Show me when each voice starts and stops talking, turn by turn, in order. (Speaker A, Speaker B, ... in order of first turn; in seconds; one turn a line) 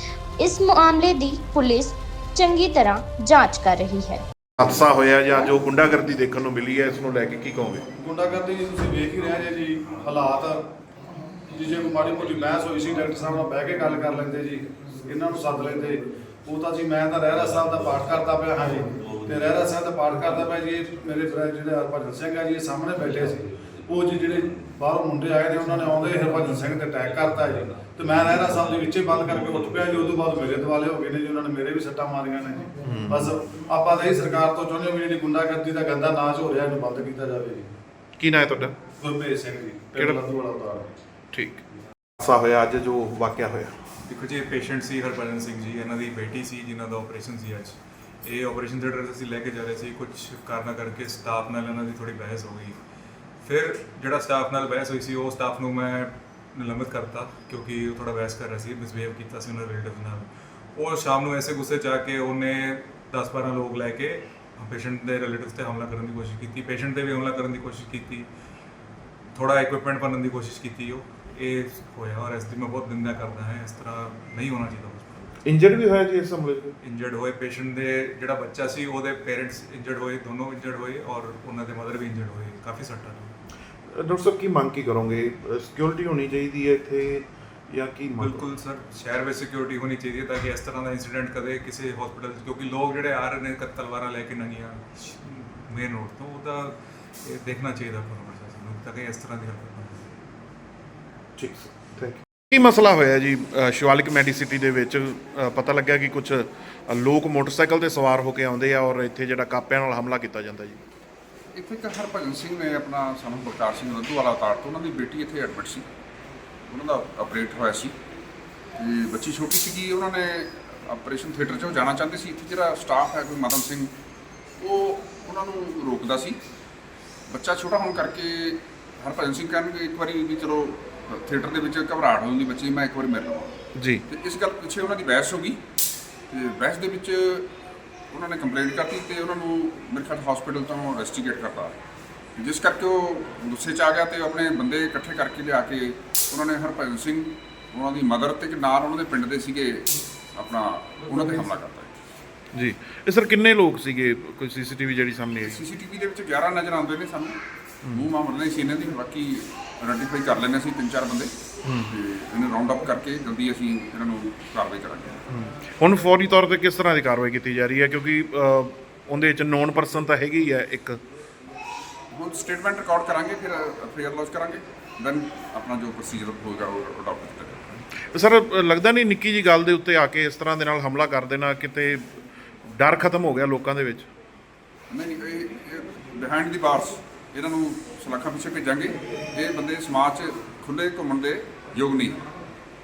Speaker A: 0.4-4.2
Speaker B: 4.6-7.8
Speaker C: 8.0-10.7
Speaker C: 11.5-37.7
Speaker B: 32.8-33.3
Speaker B: 38.2-38.8
Speaker C: 39.0-40.9
Speaker B: 40.0-40.2
Speaker B: 41.3-41.6
Speaker B: 42.2-43.7
Speaker D: 44.1-52.8
Speaker D: 53.4-68.3
Speaker D: 69.3-75.3
Speaker B: 75.4-76.8
Speaker D: 76.8-83.3
Speaker B: 83.9-88.5
Speaker D: 88.2-100.1
Speaker B: 101.4-110.8
Speaker E: 111.5-115.9
Speaker E: 116.7-117.9
Speaker E: 118.8-123.9
Speaker E: 124.6-126.4
Speaker E: 127.3-135.6
Speaker B: 133.7-134.0
Speaker E: 136.3-137.5
Speaker E: 138.1-141.8
Speaker E: 142.4-151.9
Speaker B: 152.5-155.6
Speaker E: 155.4-161.3
Speaker B: 161.6-161.9
Speaker E: 161.9-165.2
Speaker B: 165.3-171.0
Speaker E: 172.1-177.8
Speaker B: 178.1-182.1
Speaker B: 182.8-184.1
Speaker E: 184.9-192.2